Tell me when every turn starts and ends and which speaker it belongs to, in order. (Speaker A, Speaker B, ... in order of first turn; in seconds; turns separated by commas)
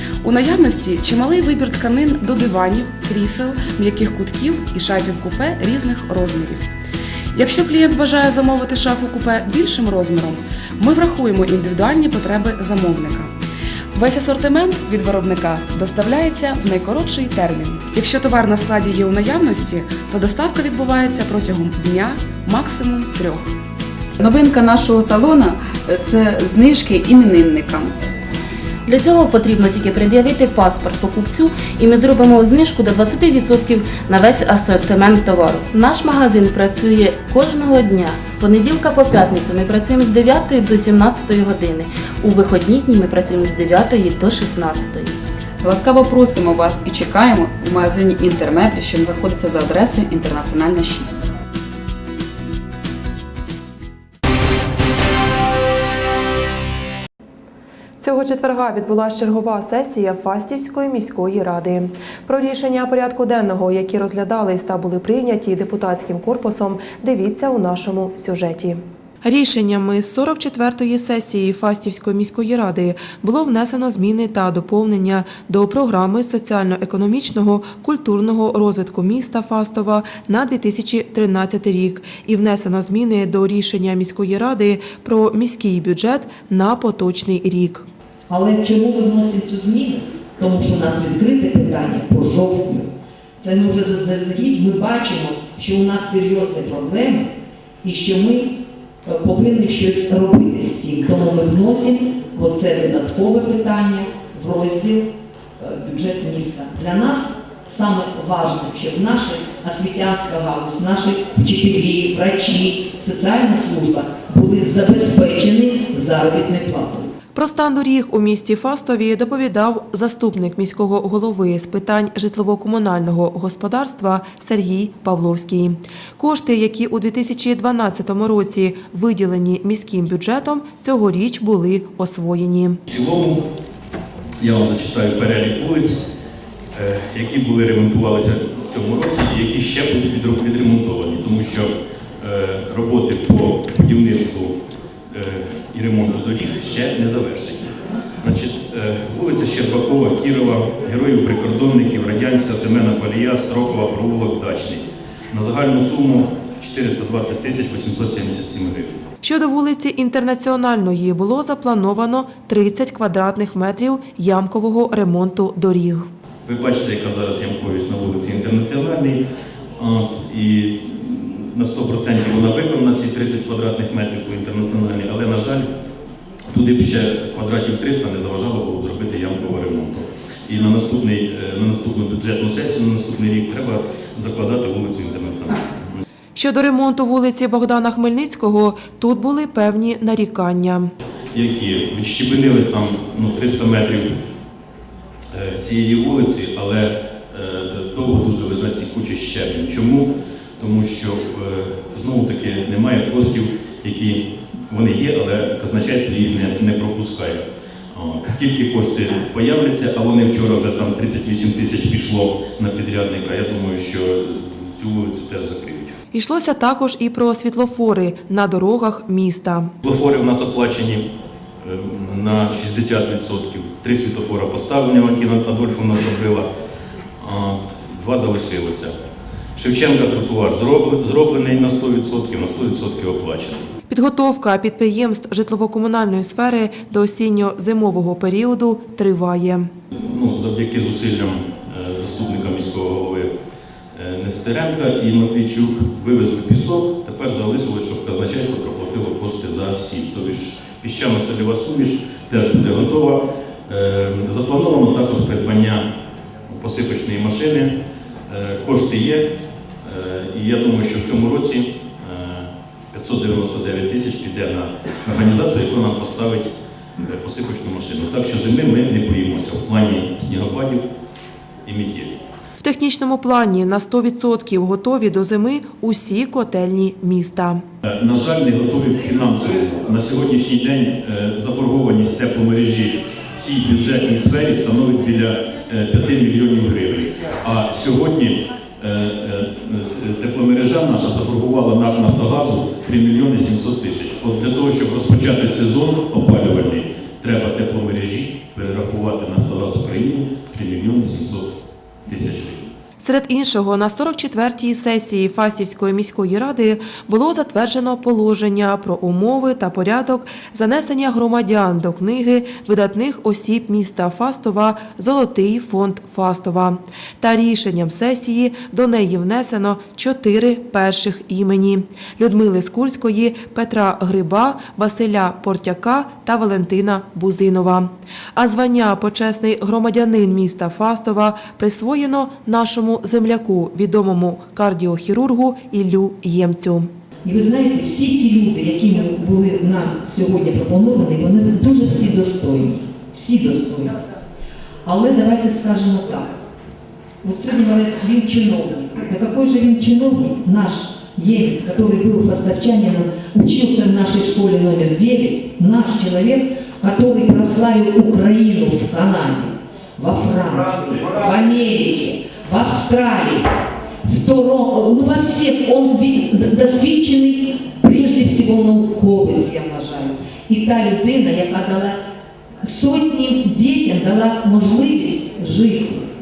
Speaker A: 0.2-6.7, Speaker A: 7.3-13.3, Speaker A: 13.9-23.5, Speaker B: 24.2-27.9, Speaker C: 28.9-45.2, Speaker B: 45.6-51.2, Speaker D: 58.0-87.8, Speaker E: 88.3-92.9, Speaker E: 93.4-97.3, Speaker E: 97.8-117.1, Speaker D: 117.3-132.8, Speaker F: 132.9-133.4, Speaker F: 134.4-136.0, Speaker F: 136.8-144.5, Speaker F: 145.1-147.7, Speaker F: 148.2-159.0, Speaker D: 159.2-166.1, Speaker F: 166.5-169.2, Speaker F: 169.8-175.7, Speaker F: 176.5-186.0, Speaker D: 186.3-190.9, Speaker F: 191.3-194.1, Speaker F: 195.3-216.0, Speaker D: 216.1-219.7, Speaker F: 219.8-221.1, Speaker F: 221.6-226.5, Speaker F: 227.2-228.9, Speaker F: 229.6-233.7, Speaker D: 233.9-239.7, Speaker F: 239.9-243.3, Speaker F: 243.9-255.8, Speaker F: 256.5-257.7, Speaker F: 258.3-259.3, Speaker F: 259.8-270.8, Speaker F: 271.6-272.1, Speaker D: 272.6-277.6, Speaker F: 277.8-302.7, Speaker D: 303.0-336.9, Speaker E: 337.2-344.0, Speaker E: 344.9-346.3, Speaker E: 347.2-363.5, Speaker E: 364.0-372.0, Speaker E: 372.6-376.1